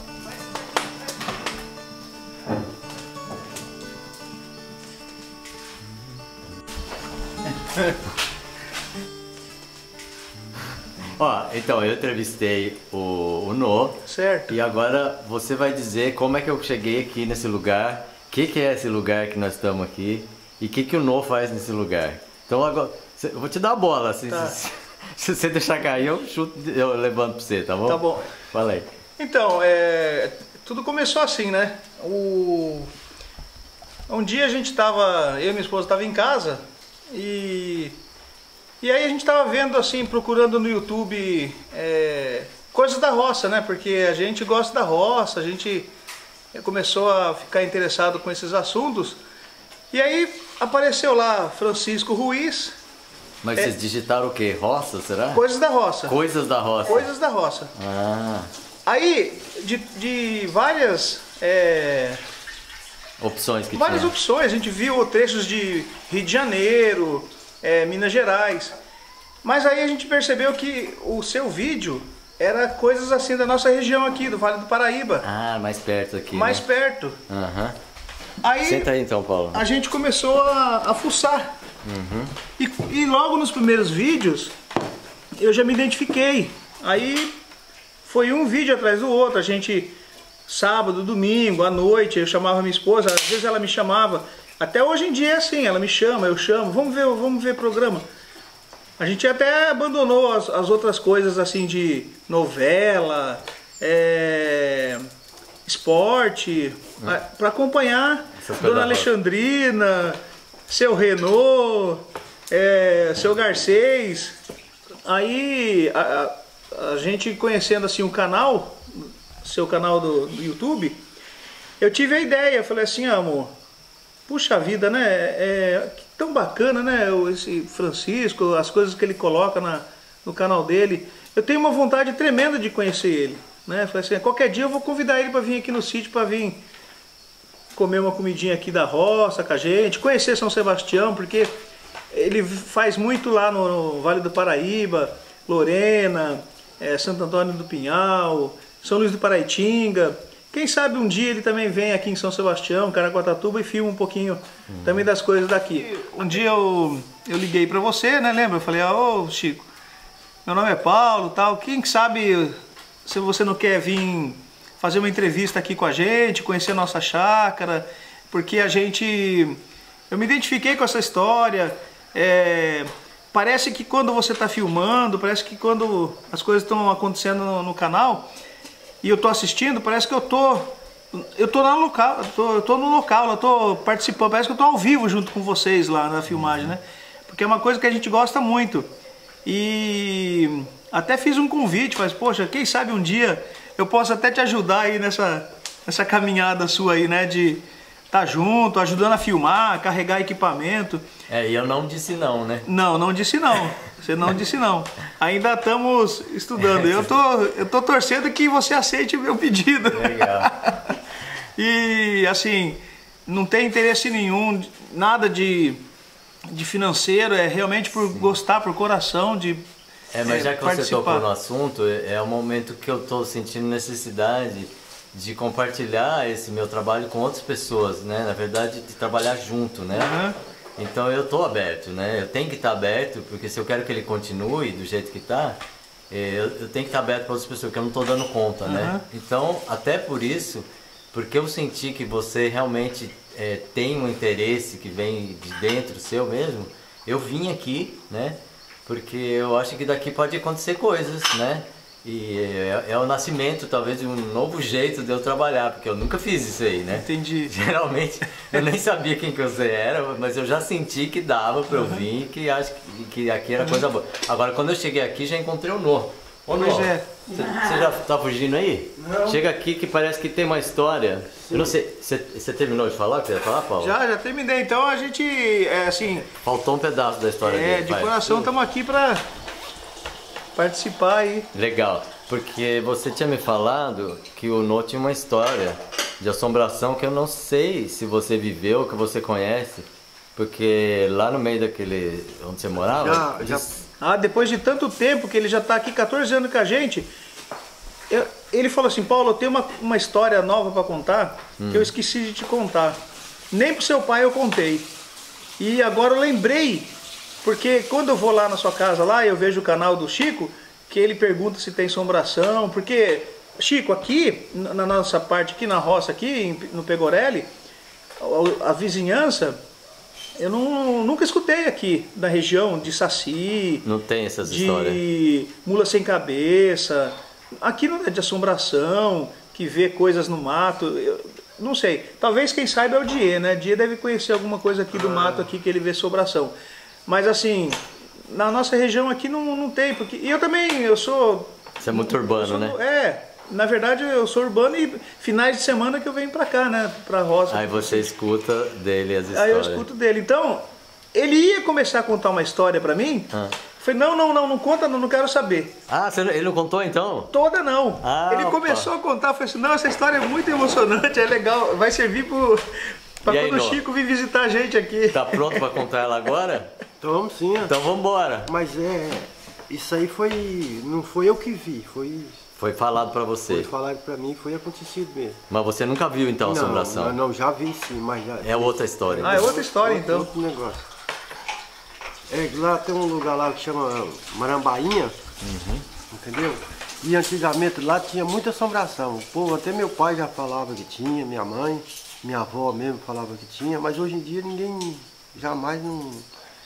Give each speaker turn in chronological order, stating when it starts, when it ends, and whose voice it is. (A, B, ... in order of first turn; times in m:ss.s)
0:11.2-0:28.9 A
0:14.1-0:14.5 B
0:24.3-0:24.5 B
0:27.8-0:28.3 B
0:29.2-0:32.9 B
0:34.1-0:38.0 B
0:38.8-0:45.9 B
0:46.5-0:49.2 B
0:49.9-0:52.8 B
0:53.4-0:55.4 A
0:55.3-0:56.2 B
0:56.1-0:57.1 A
0:56.8-0:57.7 B
0:57.7-0:58.5 A
0:58.8-1:02.2 B
1:03.2-1:04.1 A
1:03.7-1:08.8 B
1:09.4-1:15.2 B
1:15.2-1:16.6 A
1:16.3-1:17.2 B
1:17.3-1:17.8 A
1:18.4-1:18.9 B
1:18.6-1:19.6 A
1:19.5-1:21.5 B
1:21.8-1:22.3 A
1:22.6-1:24.6 B
1:25.4-1:27.3 B
1:28.0-1:29.9 B
1:30.5-1:38.0 B
1:39.0-1:45.1 B
1:45.6-1:54.4 B
1:48.4-1:49.1 A
1:55.0-2:01.0 B
2:01.8-2:03.5 B
2:04.3-2:16.6 B
2:17.7-2:21.5 B
2:22.1-2:39.7 B
2:34.7-2:35.1 A
2:40.4-2:49.6 B
2:50.1-2:58.3 B
2:59.0-3:08.9 B
3:06.3-3:06.7 A
3:09.4-3:21.0 B
3:21.3-3:22.6 A
3:22.6-3:31.0 B
3:26.6-3:27.1 A
3:29.9-3:30.5 A
3:31.6-3:35.8 B
3:36.5-3:39.6 B
3:40.1-3:50.2 A
3:40.2-3:41.2 B
3:49.9-3:50.4 B
3:50.8-3:55.6 A
3:56.1-4:34.0 A
3:58.6-3:59.0 B
4:16.9-4:17.5 B
4:26.5-4:27.2 B
4:29.0-4:29.4 C
4:31.5-4:31.7 C
4:33.8-4:36.3 B
4:36.4-4:38.5 A
4:37.4-4:39.2 B
4:40.6-4:41.5 B
4:41.5-4:53.8 A
4:52.8-4:53.7 C
4:54.0-4:57.1 B
4:58.1-5:03.0 B
5:01.6-5:01.9 A
5:03.5-5:04.9 B
5:05.6-5:06.9 B
5:07.4-5:17.5 B
5:18.2-5:19.6 B
5:20.4-5:23.8 B
5:23.8-5:25.0 A
5:24.4-5:36.5 B
5:35.0-5:35.4 A
5:37.1-5:48.1 B
5:41.8-5:42.8 A
5:47.5-5:49.8 A
5:49.3-5:55.7 B
5:53.3-5:53.6 A
5:55.9-5:57.3 A
5:57.3-6:05.7 B
5:58.0-5:58.9 A
6:03.2-6:03.8 A
6:05.1-6:06.7 A
6:07.0-6:07.7 C
6:07.7-6:08.5 A
6:08.4-6:12.4 C
6:12.6-6:13.7 A
6:13.5-6:15.4 C
6:15.5-6:17.2 A
6:16.4-6:20.8 C
6:18.4-6:19.5 A
6:19.2-6:20.3 B
6:22.3-6:25.2 C
6:25.4-6:25.8 A
6:26.1-6:36.3 C